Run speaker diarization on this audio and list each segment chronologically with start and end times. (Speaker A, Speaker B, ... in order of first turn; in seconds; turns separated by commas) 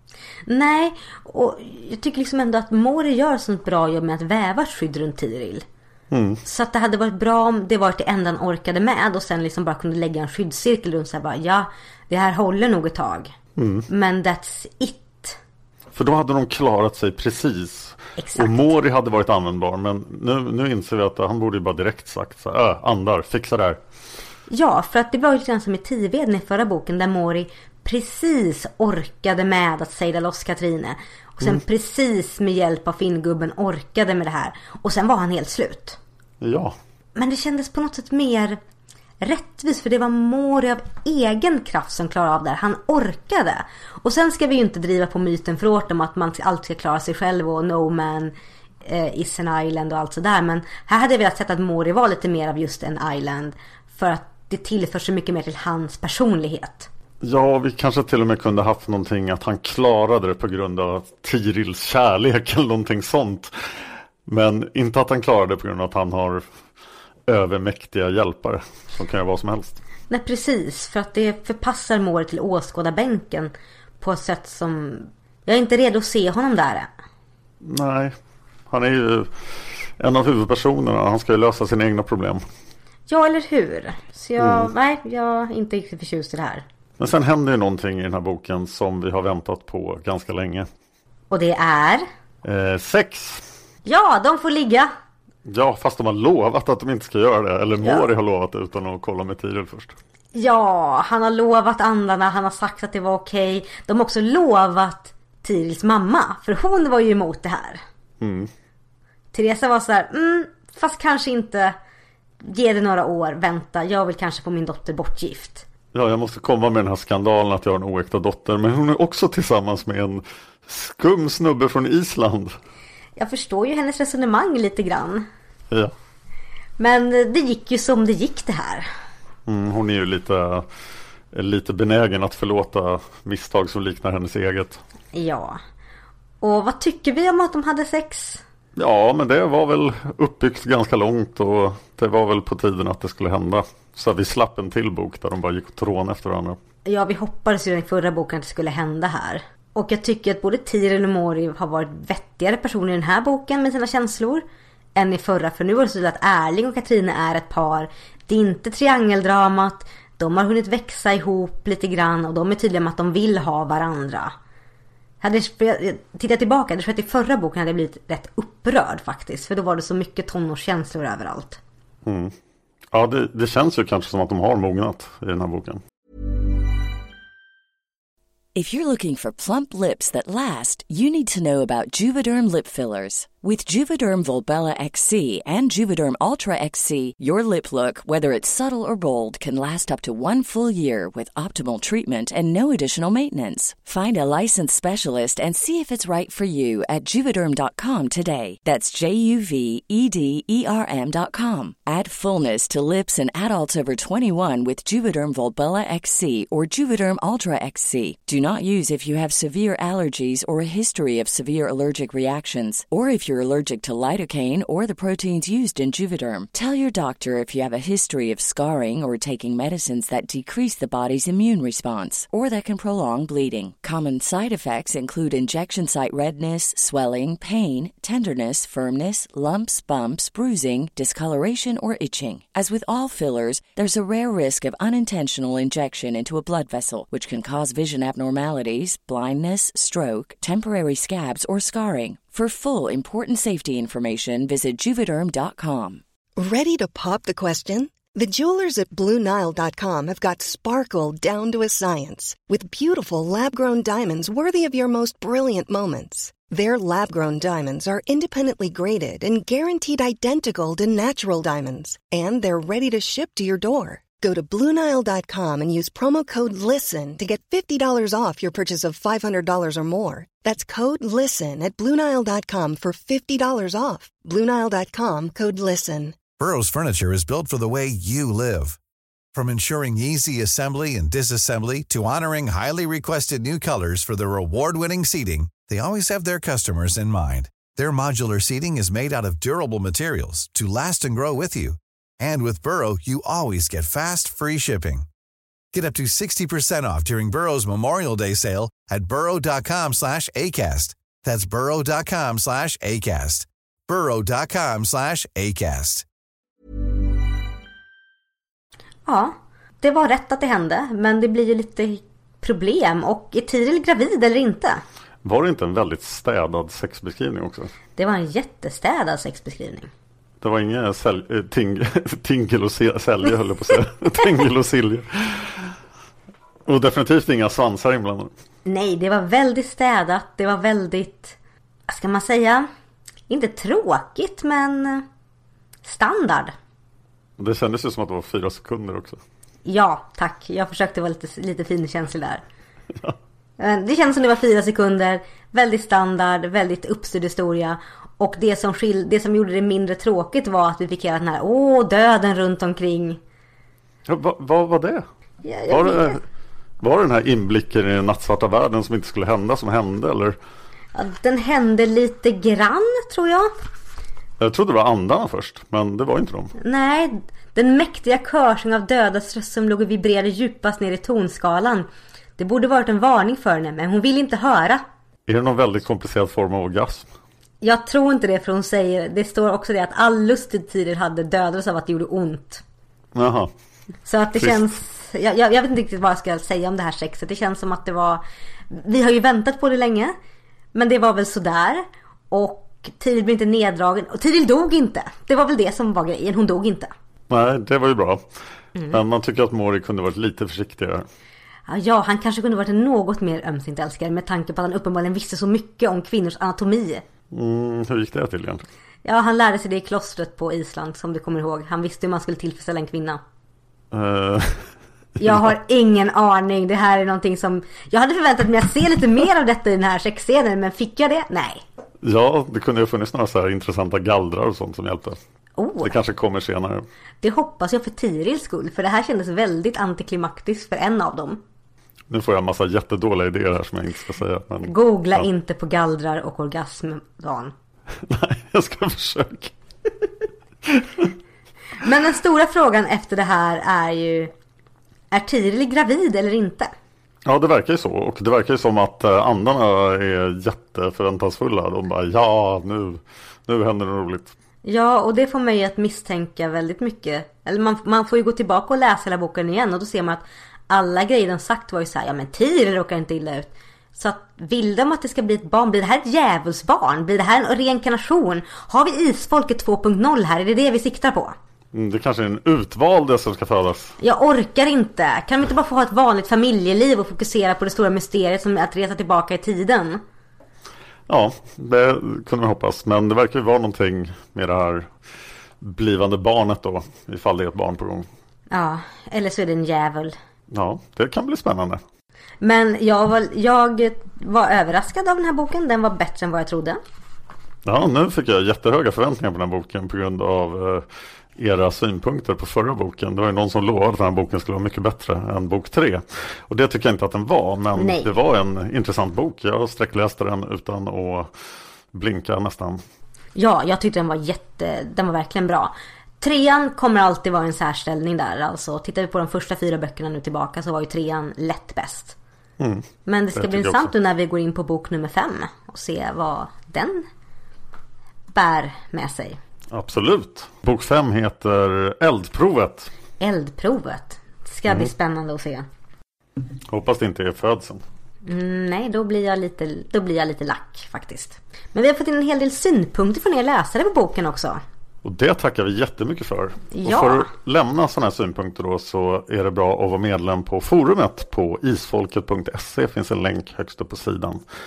Speaker A: 0.5-5.7, Speaker B: 6.1-6.4, Speaker A: 6.5-13.3, Speaker B: 13.6-13.9, Speaker A: 13.9-15.4, Speaker B: 15.9-23.8, Speaker A: 18.2-18.7, Speaker A: 24.5-36.0, Speaker B: 36.4-36.8, Speaker A: 37.2-38.6, Speaker A: 39.2-48.3, Speaker A: 48.9-56.9, Speaker B: 57.2-63.7, Speaker B: 64.3-66.4, Speaker B: 67.3-69.8, Speaker A: 70.1-76.9, Speaker B: 77.6-78.2, Speaker B: 78.7-82.4, Speaker A: 83.1-86.7, Speaker B: 84.4-84.7, Speaker B: 87.0-90.7, Speaker A: 91.3-92.1, Speaker B: 92.4-93.5, Speaker A: 93.9-94.9, Speaker B: 95.5-100.0, Speaker A: 100.3-107.8, Speaker B: 108.2-108.5, Speaker A: 109.3-111.8, Speaker A: 112.4-115.7, Speaker B: 115.9-122.5, Speaker A: 123.2-125.3, Speaker A: 126.8-128.9, Speaker B: 129.5-130.7, Speaker B: 131.3-134.8, Speaker A: 135.1-135.6, Speaker A: 136.4-138.4, Speaker B: 138.8-146.6, Speaker A: 146.9-154.4, Speaker A: 155.0-164.3, Speaker A: 165.2-171.6, Speaker B: 172.1-172.3, Speaker B: 172.9-175.8, Speaker C: 178.6-246.0, Speaker D: 246.4-276.2, Speaker E: 276.4-278.8, Speaker E: 279.3-295.1, Speaker E: 295.7-306.1, Speaker A: 309.1-314.8, Speaker B: 315.2-317.7, Speaker A: 318.0-319.9, Speaker B: 320.4-325.7, Speaker B: 326.7-328.3, Speaker A: 328.7-331.4, Speaker A: 331.9-332.7, Speaker A: 333.3-335.1, Speaker A: 335.9-336.6, Speaker B: 337.4-339.2, Speaker A: 339.6-342.4, Speaker A: 343.6-353.2, Speaker B: 354.1-355.1, Speaker A: 355.4-356.2, Speaker B: 355.7-356.2, Speaker B: 356.8-360.4, Speaker A: 360.9-363.5, Speaker B: 364.4-366.5, Speaker A: 366.6-371.9, Speaker A: 372.4-374.8, Speaker B: 375.3-377.1, Speaker A: 377.6-382.6, Speaker B: 383.1-383.5, Speaker A: 384.1-390.1, Speaker B: 384.4-384.7, Speaker A: 390.7-396.9, Speaker B: 397.3-398.2, Speaker B: 398.9-401.1, Speaker A: 401.7-407.0, Speaker B: 407.3-408.6, Speaker A: 409.1-413.2, Speaker B: 413.9-414.7, Speaker A: 415.2-421.6, Speaker B: 415.2-415.5, Speaker B: 422.0-425.2, Speaker A: 425.6-425.9, Speaker B: 425.8-426.9, Speaker A: 427.2-431.4, Speaker B: 432.1-435.3, Speaker A: 434.7-437.5, Speaker B: 438.1-439.5, Speaker B: 440.7-441.1, Speaker A: 441.8-444.3, Speaker A: 445.1-446.7, Speaker B: 447.3-454.4, Speaker A: 454.6-471.4, Speaker B: 471.7-474.0, Speaker A: 474.0-480.0, Speaker B: 481.1-484.9, Speaker B: 485.6-488.1, Speaker A: 488.5-490.2, Speaker B: 490.5-491.8, Speaker A: 492.4-496.8, Speaker B: 497.6-511.3, Speaker A: 507.8-508.1, Speaker B: 511.9-512.8, Speaker A: 513.4-522.2, Speaker B: 522.6-523.9, Speaker A: 523.1-527.1, Speaker A: 528.3-529.4, Speaker B: 529.7-532.9, Speaker A: 533.2-535.7, Speaker B: 536.7-537.8, Speaker A: 538.2-544.6, Speaker B: 545.0-554.4, Speaker A: 546.7-547.3